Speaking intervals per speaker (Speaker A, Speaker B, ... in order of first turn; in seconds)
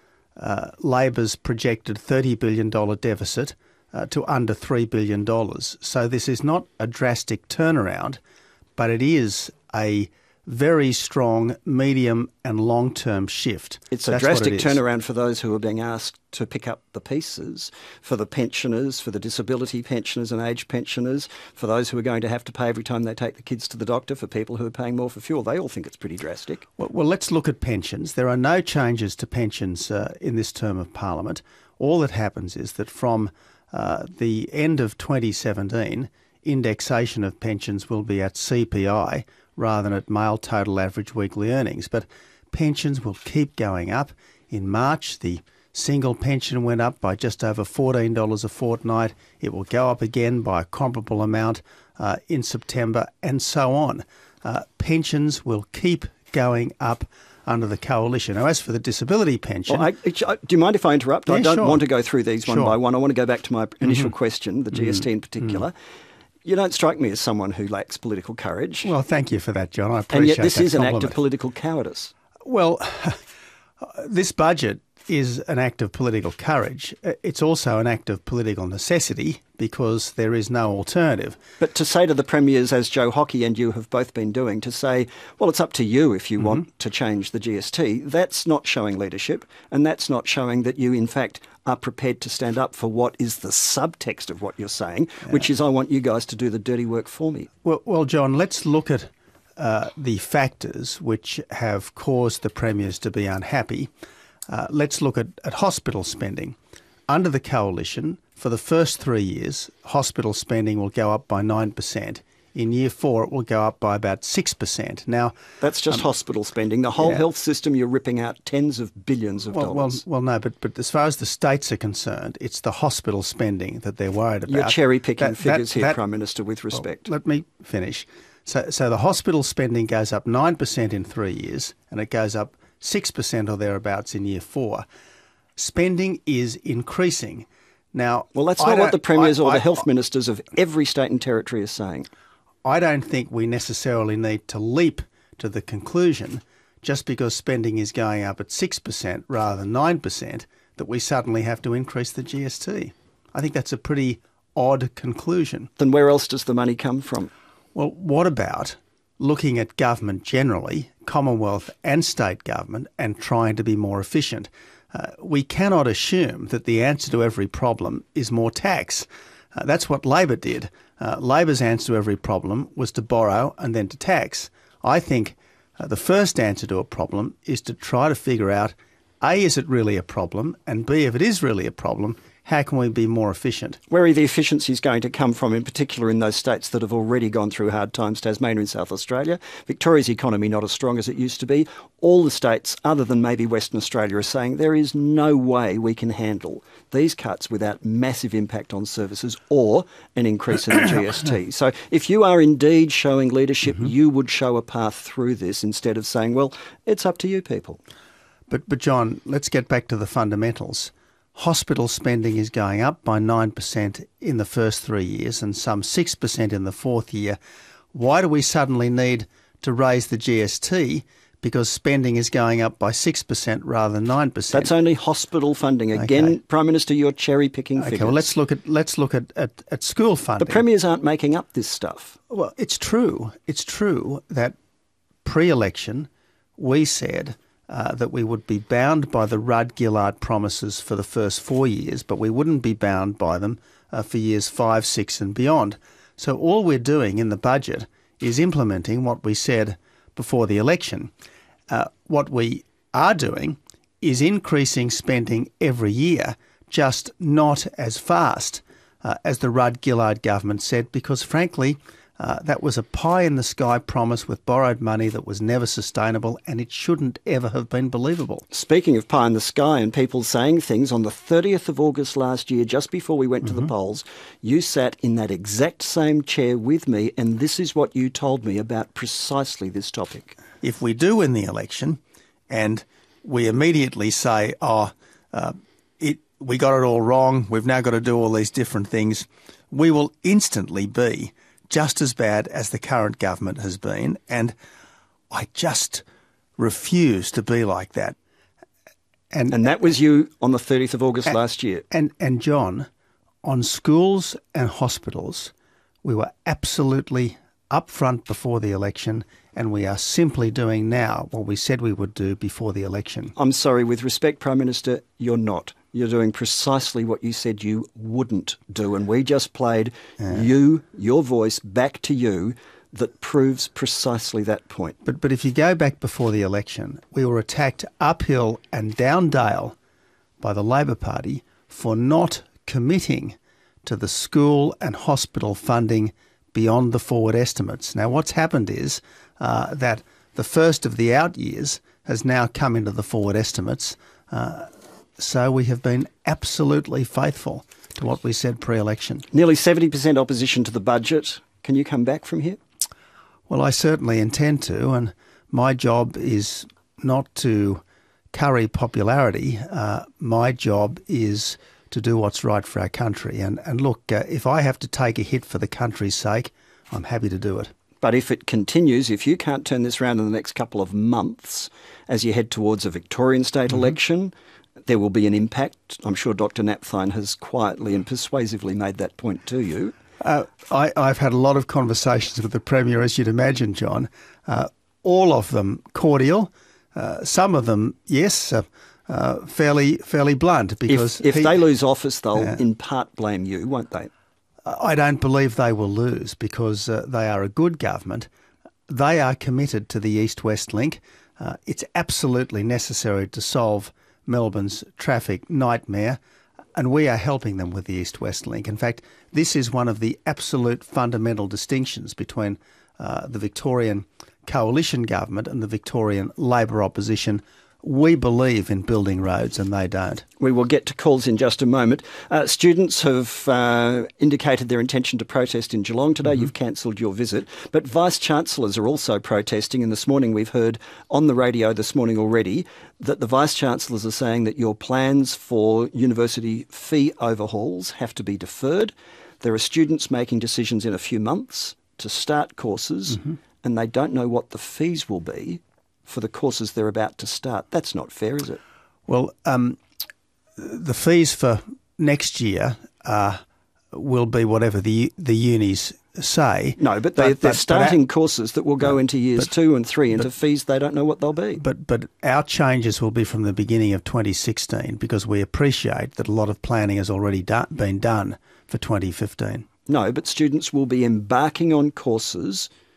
Speaker A: 0.4-8.2, 8.8-14.8, 26.8-59.9, 61.3-61.8, 62.5-62.8, 68.8-71.2, 72.5-73.2, 73.8-81.4, 97.7-103.9, 104.5-106.6, 107.1-115.4, 119.5-126.0, 126.7-134.8, 135.6-139.8, 142.7-155.7, 157.8-183.8, 208.5-217.4, 217.9-224.7, 226.0-226.3, 227.8-230.6, 232.3-234.6, 235.2-251.1, 251.7-268.4, 280.6-294.6, 295.3-296.0, 296.6-298.1, 299.3-299.6, 301.9-302.9, 303.4-305.5, 306.0-313.4, 325.1-329.8, 330.4-349.3, 353.5-357.8, 358.3-367.7, 380.2-391.6, 394.6-398.3, 398.9-406.2, 406.8-420.2, 449.1-449.8, 450.6-453.4, 453.9-458.0, 461.6-469.7
Speaker B: 13.9-26.6, 59.7-65.7, 66.5-68.9, 70.1-72.1, 81.6-97.5, 115.6-120.0, 124.5-127.1, 138.3-142.1, 155.8-157.3, 183.9-207.8, 224.5-228.3, 230.4-232.2, 268.5-280.4, 299.5-301.8, 313.4-325.0, 349.3-352.6, 368.0-374.3, 374.9-379.9, 390.9-394.1, 420.4-448.6, 456.8-461.6, 469.9-472.7